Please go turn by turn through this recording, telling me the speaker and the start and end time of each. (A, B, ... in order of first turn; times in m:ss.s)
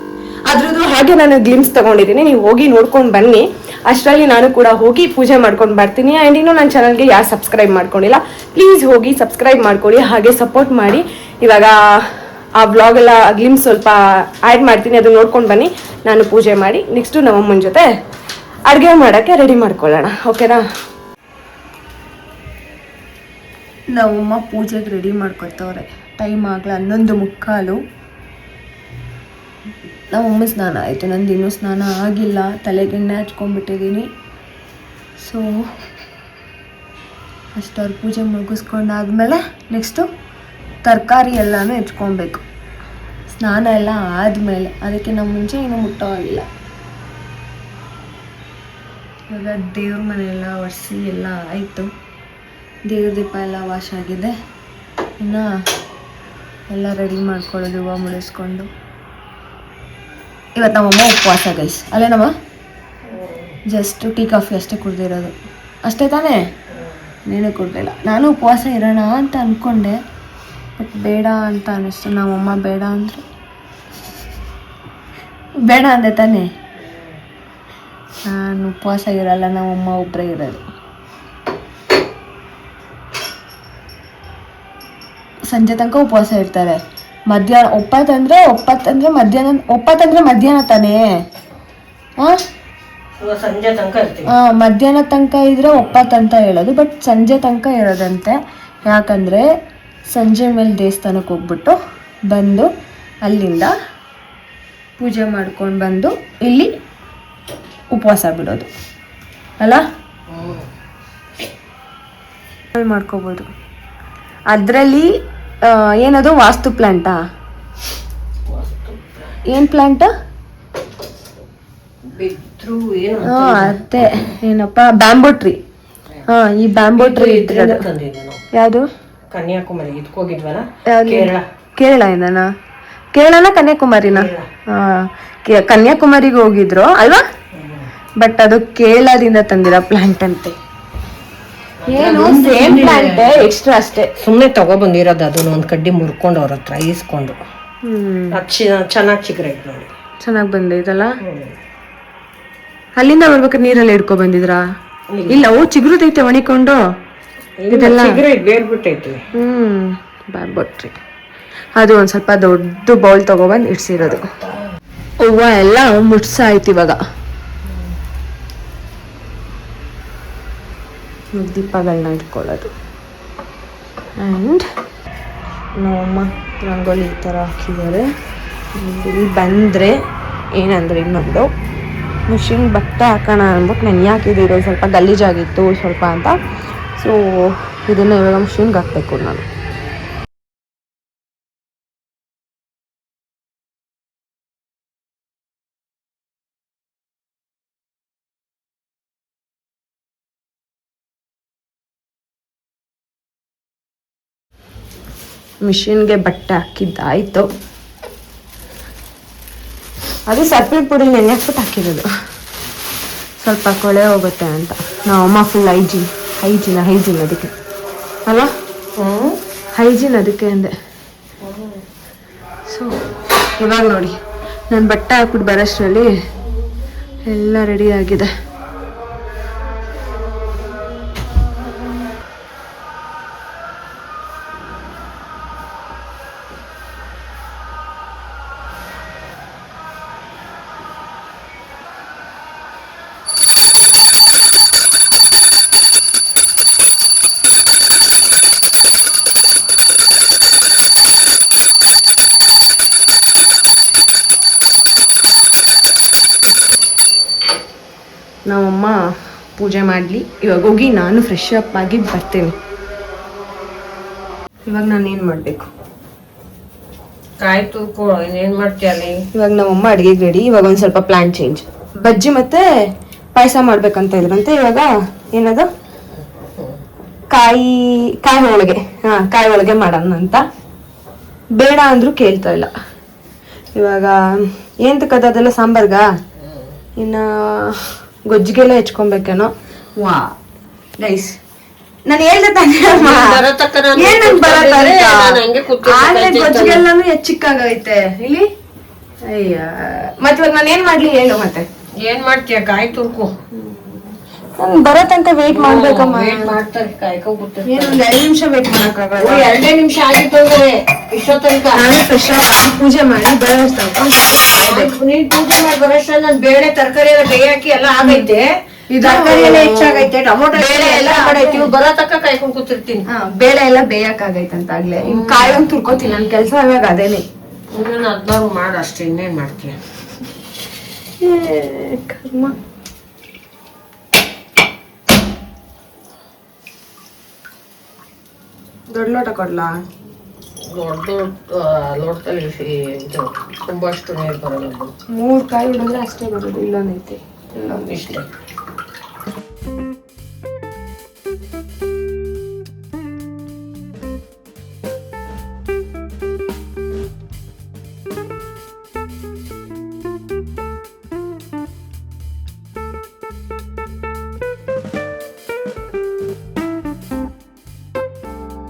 0:00.5-0:11.8 A
0:12.6-0:17.9 A
0:18.7-0:20.6 A
0:23.9-0:27.8 A
0:30.1-0:34.1 A
0:35.2-0:35.6 A
0:37.6-0:40.0 A
0:40.8-0:42.4 A
0:43.4-0:46.4 A
0:49.3-0:51.9 A
0:52.9-0:54.3 A
0:55.2-0:55.5 A
0:56.7-0:58.7 A
1:00.6-1:02.3 A
1:03.1-1:03.6 B
1:03.7-1:05.3 A
1:05.8-1:06.4 A
1:06.7-1:07.0 B
1:07.3-1:10.0 A
1:10.8-1:13.2 A
1:15.7-1:16.5 A
1:16.8-1:17.1 B
1:18.3-1:20.6 A
1:25.5-1:26.8 A
1:27.3-1:31.0 A
1:33.2-1:34.3 B
1:34.3-1:39.5 A
1:40.1-1:41.8 A
1:42.3-1:42.7 A
1:43.2-1:43.7 A
1:45.0-1:46.7 A
1:47.9-1:48.7 A
1:50.3-1:50.7 B
1:52.7-1:53.5 A
1:54.5-1:55.1 A
1:55.6-1:57.2 A
1:58.4-1:59.4 B
1:59.4-2:00.1 A
2:02.0-2:03.8 B
2:03.2-2:05.6 A
2:06.3-2:07.8 A
2:07.0-2:08.4 B
2:08.5-2:08.9 A
2:09.3-2:11.4 B
2:10.9-2:12.5 A
2:13.1-2:17.2 A
2:14.1-2:14.5 B
2:17.5-2:17.9 B
2:18.2-2:20.6 A
2:21.8-2:23.5 B
2:21.9-2:24.1 A
2:24.2-2:27.4 B
2:27.8-2:28.4 A
2:28.3-2:29.9 B
2:30.2-2:31.2 A
2:31.2-2:31.6 B
2:33.0-2:34.6 A
2:35.1-2:35.4 B
2:35.3-2:36.8 A
2:37.6-2:39.2 B
2:37.7-2:38.2 A
2:39.4-2:41.0 A
2:41.8-2:44.3 A
2:45.2-2:47.0 A
2:51.3-2:52.7 A
2:54.2-2:54.6 A
2:55.8-2:58.0 A
2:58.7-2:59.9 A
3:00.5-3:01.5 A
3:02.3-3:06.4 A
3:07.0-3:09.4 A
3:25.6-3:27.5 A
3:30.3-3:32.0 A
3:33.4-3:37.5 A
3:39.0-3:39.4 B
3:39.8-3:40.7 A
3:41.4-3:41.8 B
3:43.6-3:44.2 A
3:44.7-3:46.1 A
3:47.3-3:48.3 A
4:18.5-4:19.0 A
4:19.6-4:22.5 A
4:24.7-4:25.7 A
4:27.4-4:29.2 B
4:29.3-4:32.6 A
4:33.4-4:35.7 A
4:36.4-4:36.8 B
4:37.3-4:40.4 A
4:41.6-4:42.7 A
4:43.8-4:44.2 A
4:44.8-4:46.1 A
4:46.4-4:46.7 B
4:47.0-4:50.3 A
4:51.0-4:51.4 A
4:52.1-4:53.4 A
4:52.9-4:56.8 B
4:53.9-4:58.5 A
4:59.2-5:01.6 A
5:02.0-5:03.3 B
5:03.5-5:04.0 A
5:04.6-5:06.5 A
5:05.5-5:08.0 B
5:07.6-5:09.5 A
5:09.2-5:11.9 B
5:11.7-5:14.9 A
5:14.5-5:23.0 B
5:18.9-5:21.7 A
5:23.1-5:27.2 A
5:25.0-5:25.6 B
5:27.7-5:29.8 B
5:31.2-5:32.5 A
5:38.9-5:39.7 A
5:40.6-5:44.9 B
5:45.1-5:48.2 A
5:47.7-5:48.3 B